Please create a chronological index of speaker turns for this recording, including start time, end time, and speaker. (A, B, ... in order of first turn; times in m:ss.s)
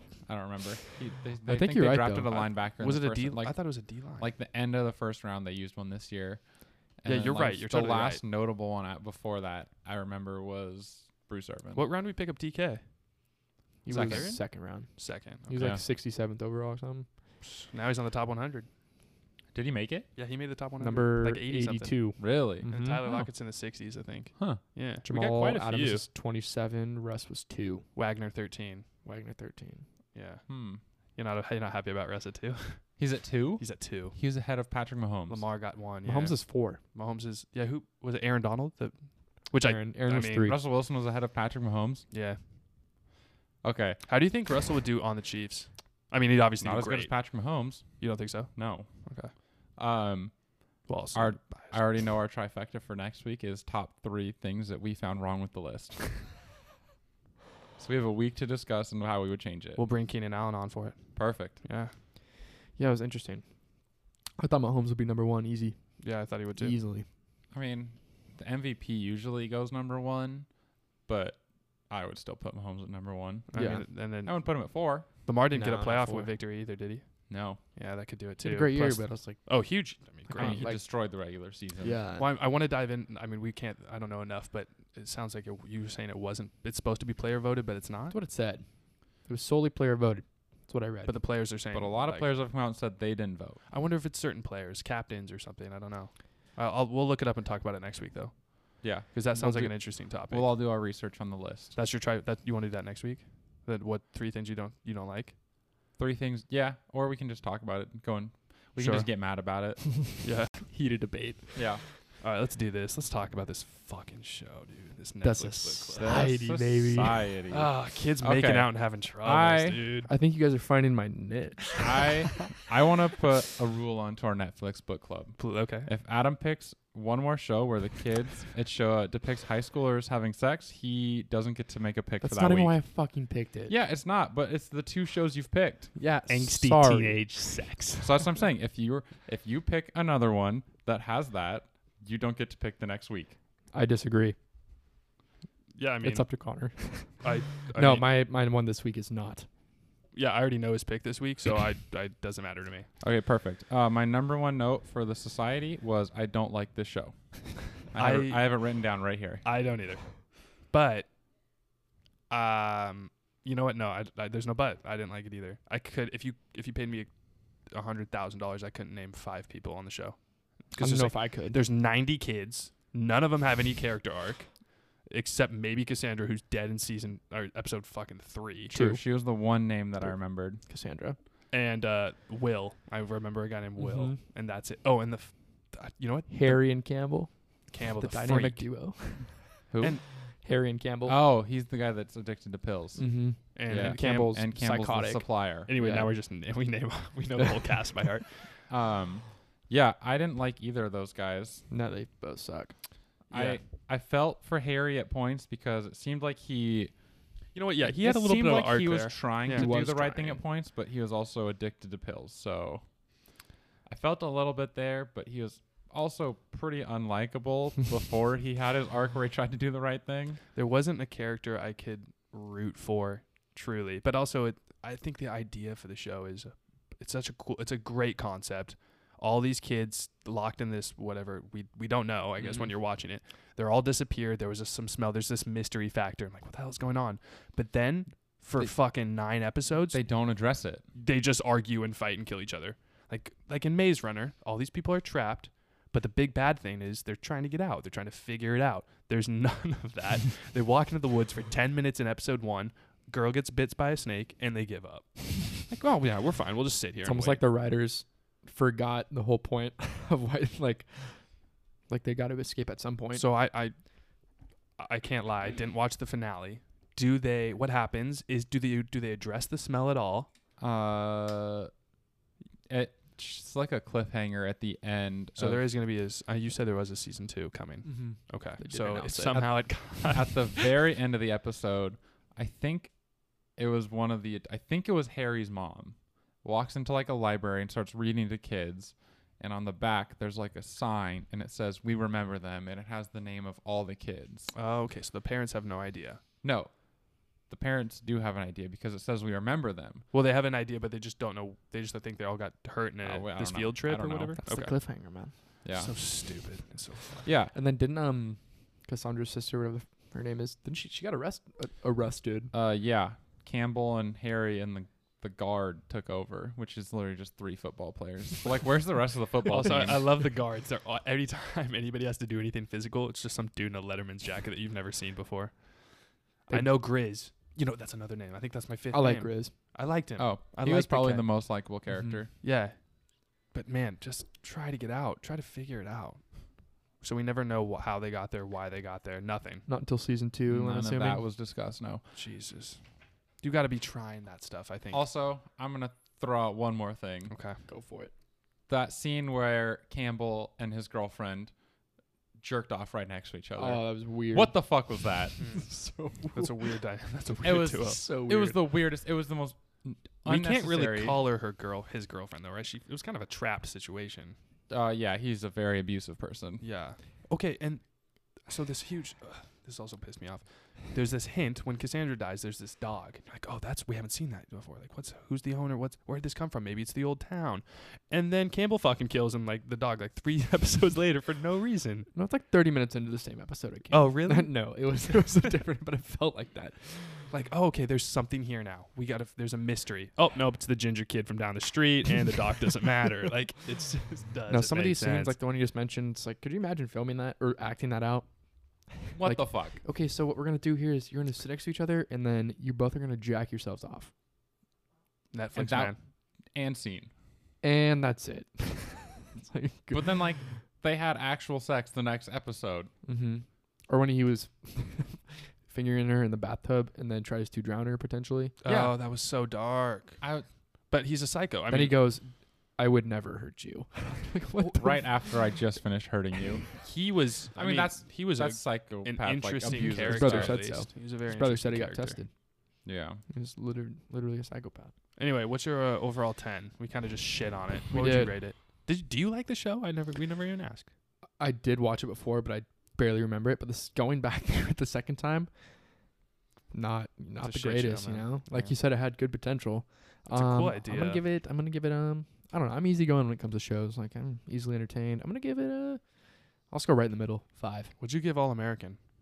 0:00.2-0:11.9 A
0:01.5-0:02.5 B
0:02.6-0:04.3 C
0:07.0-0:08.2 C
0:11.7-0:12.9 C
0:13.8-0:17.1 B
0:13.9-0:14.4 A
0:13.9-0:15.8 C
0:15.6-0:15.8 A
0:17.4-0:18.7 C
0:19.5-0:20.1 A
0:20.1-0:26.1 C
0:20.8-0:23.2 B
0:22.2-0:23.2 A
0:24.4-0:24.6 A
0:25.0-0:27.9 B
0:28.0-0:28.9 C
0:29.0-0:29.9 B
0:30.1-0:33.0 C
0:30.5-0:30.8 A
0:33.0-0:35.5 A
0:33.6-0:34.2 C
0:35.3-0:40.5 C
0:36.0-0:36.8 B
0:39.6-0:40.6 B
0:40.4-0:42.1 A
0:42.1-0:42.4 C
0:43.6-0:44.0 A
0:44.0-0:49.3 C
0:46.6-0:56.2 A
0:50.9-0:52.0 C
0:57.8-0:59.8 A
0:59.8-1:02.0 C
1:01.2-1:01.6 A
1:02.7-1:07.1 B
1:06.0-1:06.8 C
1:07.5-1:15.1 A
1:13.5-1:20.7 C
1:13.5-1:13.9 B
1:15.5-1:16.3 B
1:17.3-1:17.6 A
1:18.4-1:22.3 B
1:20.4-1:22.0 A
1:22.2-1:28.2 C
1:28.1-1:31.2 B
1:31.0-1:32.3 C
1:31.7-1:33.6 A
1:33.7-1:40.5 C
1:38.8-1:41.8 A
1:41.8-1:45.4 C
1:46.0-1:50.0 A
1:48.8-1:49.1 C
1:50.2-1:50.7 C
1:50.6-1:51.9 B
1:51.6-1:51.8 A
1:52.2-1:56.3 C
1:55.2-1:57.3 B
1:56.0-1:59.8 A
1:57.5-2:00.1 C
2:00.1-2:02.2 B
2:01.8-2:12.8 A
2:05.4-2:05.9 C
2:12.2-2:13.7 B
2:13.7-2:15.9 A
2:16.0-2:17.7 B
2:16.3-2:18.1 C
2:18.0-2:23.4 A
2:23.7-2:24.4 B
2:25.8-2:26.3 C
2:26.0-2:29.5 B
2:27.2-2:28.1 C
2:30.1-2:32.9 C
2:33.0-2:39.4 A
2:37.9-2:38.7 C
2:39.4-2:41.1 C
2:42.3-2:58.8 C
2:50.8-2:51.6 B
2:58.7-2:59.1 B
2:58.7-3:00.6 A
3:00.0-3:01.2 B
3:01.5-3:07.0 C
3:03.8-3:04.2 B
3:06.3-3:11.2 B
3:07.7-3:08.8 C
3:09.7-3:10.0 A
3:11.0-3:15.7 A
3:13.0-3:16.1 B
3:13.6-3:14.3 C
3:15.7-3:18.6 C
3:18.7-3:21.6 A
3:21.7-3:22.8 B
3:23.3-3:27.0 A
3:23.3-3:23.6 C
3:27.5-3:29.7 C
3:27.8-3:32.9 A
3:29.5-3:30.4 B
3:33.9-3:40.4 A
3:40.6-4:00.2 C
3:52.4-3:52.7 A
3:59.9-4:00.8 A
4:00.9-4:17.4 C
4:17.0-4:23.3 B
4:23.1-4:23.8 C
4:24.8-4:30.3 C
4:30.6-4:31.7 A
4:32.7-4:35.7 A
4:35.4-4:40.6 C
4:37.8-4:39.8 B
4:40.0-4:54.5 A
4:54.5-4:56.2 C
4:56.4-5:00.0 A
5:00.1-5:04.8 C
5:03.0-5:04.4 A
5:04.4-5:05.4 B
5:05.5-5:07.3 C
5:05.6-5:06.0 A
5:07.2-5:07.5 A
5:07.5-5:12.5 B
5:12.5-5:20.3 A
5:19.5-5:31.4 C
5:26.5-5:27.0 B
5:28.9-5:29.6 B
5:30.2-5:32.3 A
5:31.9-5:32.2 B
5:32.4-5:39.7 C
5:39.7-5:41.2 B
5:40.5-5:42.0 A
5:42.1-5:42.8 C
5:43.4-5:45.0 C
5:44.9-5:47.3 A
5:47.3-5:47.6 C
5:47.6-5:48.1 B
5:48.7-5:51.6 A
5:52.4-5:55.4 A
5:53.6-5:56.8 B
5:55.4-5:58.0 C
5:57.4-6:01.2 A
5:57.8-5:58.6 B
6:00.2-6:04.4 C
6:04.7-6:06.6 A
6:06.6-6:22.1 C
6:22.1-6:27.3 B
6:23.9-6:25.5 C
6:27.3-6:35.4 C
6:34.5-6:44.1 B
6:39.2-6:39.8 A
6:45.3-6:46.0 C
6:45.6-6:47.1 A
6:47.6-6:50.6 B
6:49.9-6:52.9 A
6:53.0-6:58.6 B
6:58.6-7:00.2 C
6:58.6-6:59.0 A
7:00.2-7:00.5 A
7:00.9-7:02.0 C
7:01.7-7:05.1 B
7:04.7-7:06.8 A
7:06.8-7:12.2 C
7:07.6-7:10.6 A
7:09.7-7:12.3 B
7:12.8-7:13.2 A
7:13.3-7:14.9 B
7:15.2-7:20.9 C
7:17.9-7:18.4 B
7:21.4-7:25.6 B
7:26.7-7:37.9 B
7:27.4-7:28.8 C
7:30.3-7:31.2 C
7:38.0-7:39.0 C